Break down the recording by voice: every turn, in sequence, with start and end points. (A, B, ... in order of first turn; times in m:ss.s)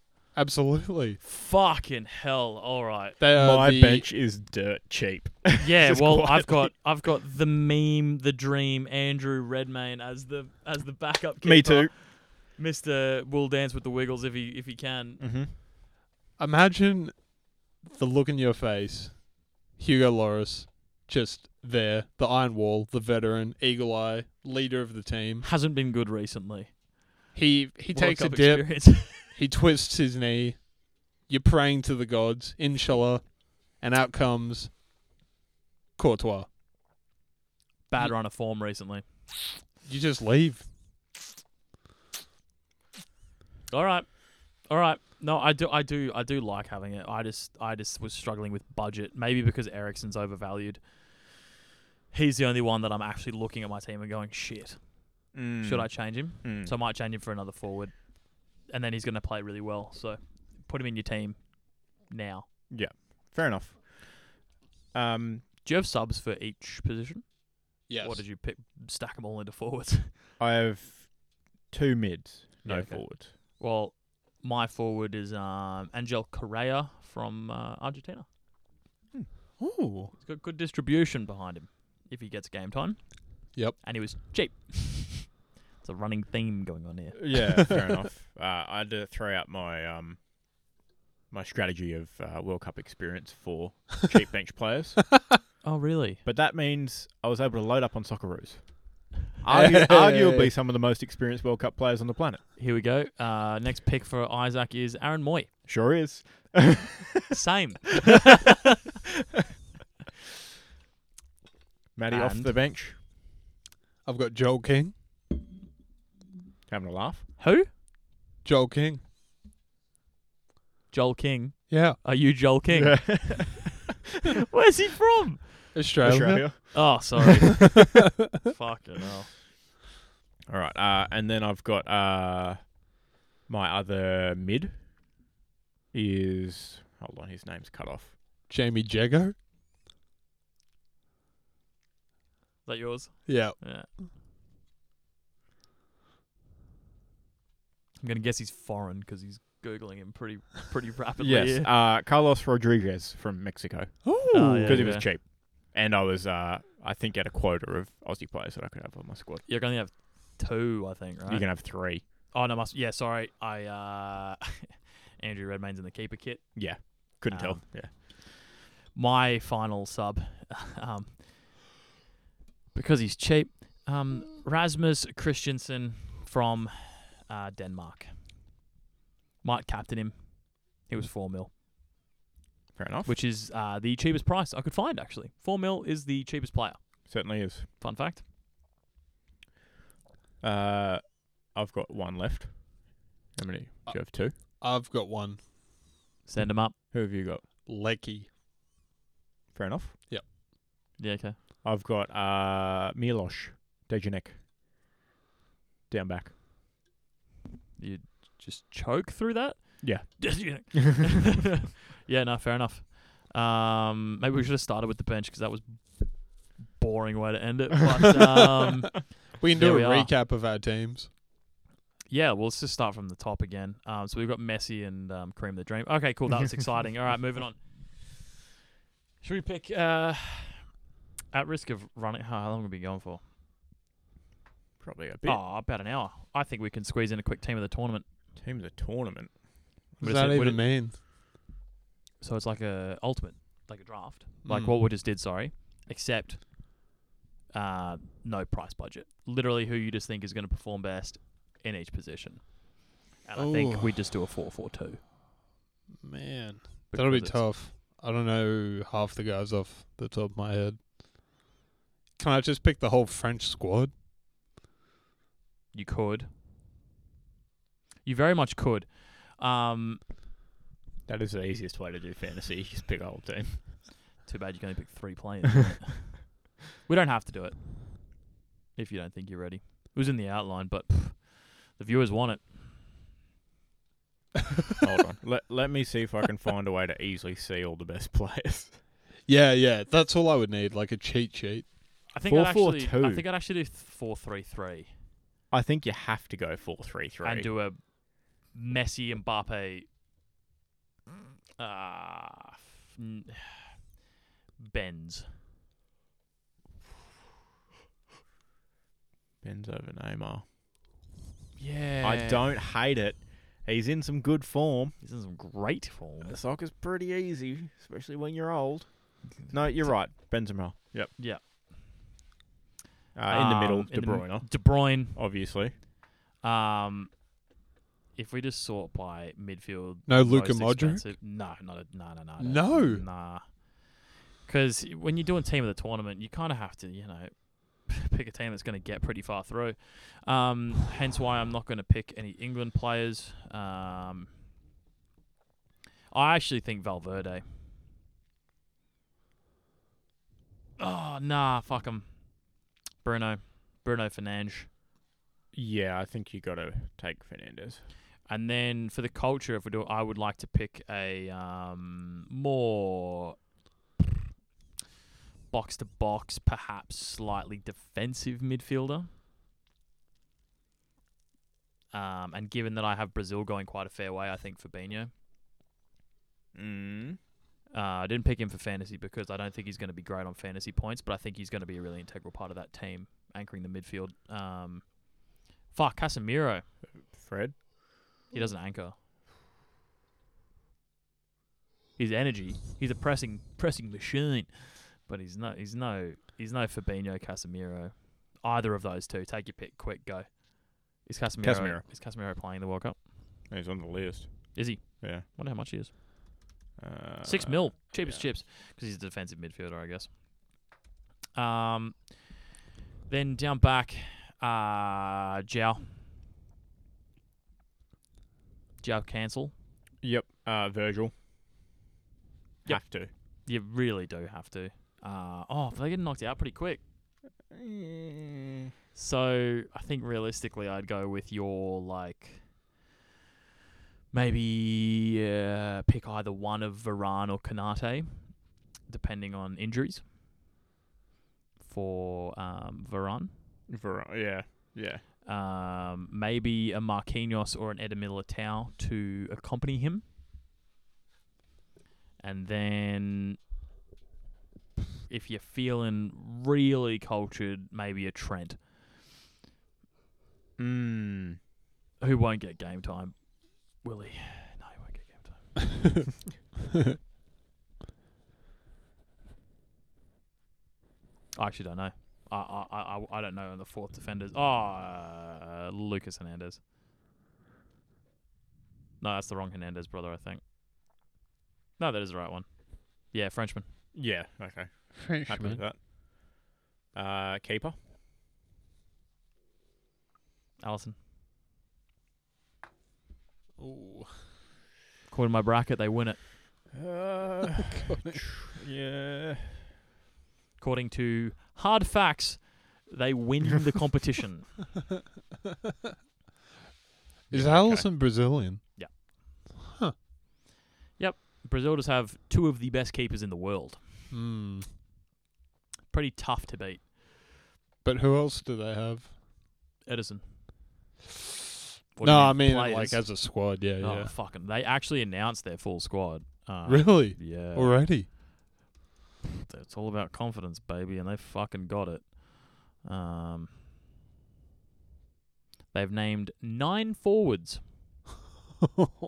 0:00.3-0:01.2 A
0:01.2-0:03.2 B
0:03.2-0:04.1 A
0:03.3-0:06.7 C
0:05.6-0:15.2 B
0:11.4-0:11.9 C
0:15.2-0:15.5 C
0:16.4-0:25.5 A
0:25.4-0:26.8 B
0:27.3-0:34.7 A
0:27.9-0:29.3 B
0:36.0-0:36.5 A
0:37.9-0:39.0 B
0:39.8-0:40.7 A
0:43.7-0:51.4 B
0:52.1-1:02.5 B
0:55.3-0:56.7 C
1:02.7-1:05.5 C
1:05.6-1:10.2 B
1:07.9-1:08.2 A
1:10.4-1:13.3 C
1:12.6-1:18.3 B
1:19.6-1:20.1 A
1:20.2-1:27.7 B
1:27.1-1:30.3 C
1:31.3-1:35.2 C
1:35.6-1:36.2 B
1:36.2-1:42.4 C
1:39.5-1:40.5 A
1:42.6-1:45.5 B
1:45.6-1:47.4 C
1:47.3-1:48.3 B
1:52.0-1:53.0 C
1:52.1-1:52.6 B
1:54.0-1:55.0 A
1:56.7-1:57.3 C
1:57.4-1:57.7 B
1:58.4-1:59.0 A
2:00.9-2:03.5 B
2:01.7-2:02.0 A
2:02.7-2:03.9 C
2:04.5-2:05.8 B
2:05.7-2:06.9 A
2:06.0-2:07.2 C
2:06.7-2:07.9 B
2:08.4-2:09.3 B
2:10.5-2:14.9 C
2:15.9-2:18.2 C
2:18.5-2:19.4 A
2:22.7-2:23.9 B
2:23.3-2:23.6 A
2:28.0-2:31.7 B
2:31.2-2:39.4 C
2:34.0-2:35.0 A
2:34.3-2:35.1 B
2:39.5-2:51.6 B
2:41.3-2:42.1 C
2:46.6-2:47.9 C
2:52.7-2:58.3 B
2:59.4-3:01.5 B
3:02.8-3:03.2 C
3:03.0-3:08.2 B
3:07.1-3:07.7 C
3:10.4-3:14.3 C
3:13.8-3:15.6 A
3:16.2-3:16.8 B
3:16.9-3:17.4 C
3:17.6-3:18.3 A
3:19.5-3:20.0 C
3:21.0-3:21.4 B
3:21.6-3:24.4 C
3:25.9-3:26.3 C
3:27.8-3:40.1 B
3:29.8-3:30.8 C
3:39.4-3:41.1 A
3:42.1-3:48.2 B
3:49.2-3:50.8 B
3:51.3-3:53.2 B
3:54.8-3:55.4 C
3:55.2-3:58.1 B
3:58.4-3:59.4 C
4:00.0-4:00.8 B
4:00.0-4:01.0 A
4:02.2-4:06.6 B
4:04.4-4:04.8 A
4:07.5-4:15.0 B
4:13.4-4:14.0 A
4:16.0-4:20.9 A
4:16.9-4:17.5 B
4:22.2-4:23.9 A
4:25.7-4:26.3 B
4:28.0-4:30.0 B
4:31.1-4:33.9 C
4:34.2-4:38.2 B
4:38.8-4:42.7 B
4:44.8-4:48.8 C
4:49.3-4:51.8 A
4:52.1-4:54.9 B
4:52.2-4:53.2 C
4:55.5-4:57.5 C
4:57.2-4:59.9 B
5:01.6-5:03.9 B
5:04.6-5:05.4 B
5:09.4-5:10.4 C
5:11.6-5:12.5 B
5:12.0-5:15.0 C
5:15.0-5:16.4 B
5:16.2-5:21.2 C
5:19.3-5:20.0 B
5:21.2-5:21.4 B
5:23.2-5:25.7 C
5:23.3-5:25.2 B
5:26.4-5:27.2 B
5:28.1-5:44.3 B
5:30.1-5:31.1 A
5:32.4-5:33.1 A
5:46.1-5:47.4 B
5:50.8-5:54.7 B
5:55.5-5:57.8 C
5:58.3-6:03.4 B
6:05.5-6:09.1 B
6:11.9-6:15.1 B
6:16.5-6:17.2 C
6:17.7-6:26.7 B
6:26.8-6:27.7 C
6:28.3-6:29.0 B
6:32.0-6:43.1 B
6:41.4-6:41.8 C
6:43.5-6:45.2 C
6:44.5-6:46.4 B
6:46.8-6:48.3 C
6:47.2-6:50.5 B
6:51.4-6:52.5 B
6:53.1-6:55.9 B
6:58.8-6:59.5 B
7:00.0-7:01.1 C
7:02.6-7:06.8 B
7:02.7-7:03.1 C
7:07.5-7:08.4 C
7:08.9-7:12.8 B
7:14.1-7:20.1 B
7:21.6-7:23.3 B
7:23.7-7:25.0 C
7:25.2-7:30.0 B
7:32.2-7:33.4 B
7:35.1-7:38.6 B
7:40.6-7:41.4 C
7:42.0-7:45.9 B
7:51.4-7:56.6 B
7:59.0-8:00.4 B
8:01.8-8:03.7 B
8:03.9-8:05.8 C
8:04.9-8:05.6 A
8:06.9-8:07.8 C
8:10.6-8:11.0 B
8:13.6-8:14.3 A
8:15.1-8:16.3 B
8:16.7-8:19.6 C
8:17.8-8:18.2 A
8:20.6-8:24.6 B
8:27.3-8:29.0 A
8:27.3-8:27.9 C
8:27.3-8:29.0 B
8:31.0-8:33.9 B
8:34.1-8:34.7 A
8:35.9-8:36.9 B
8:37.8-8:39.1 A
8:39.8-8:40.4 B
8:42.0-8:48.0 B
8:42.0-8:44.1 A
8:46.7-8:48.1 A
8:49.5-8:53.7 B
8:55.7-8:57.7 B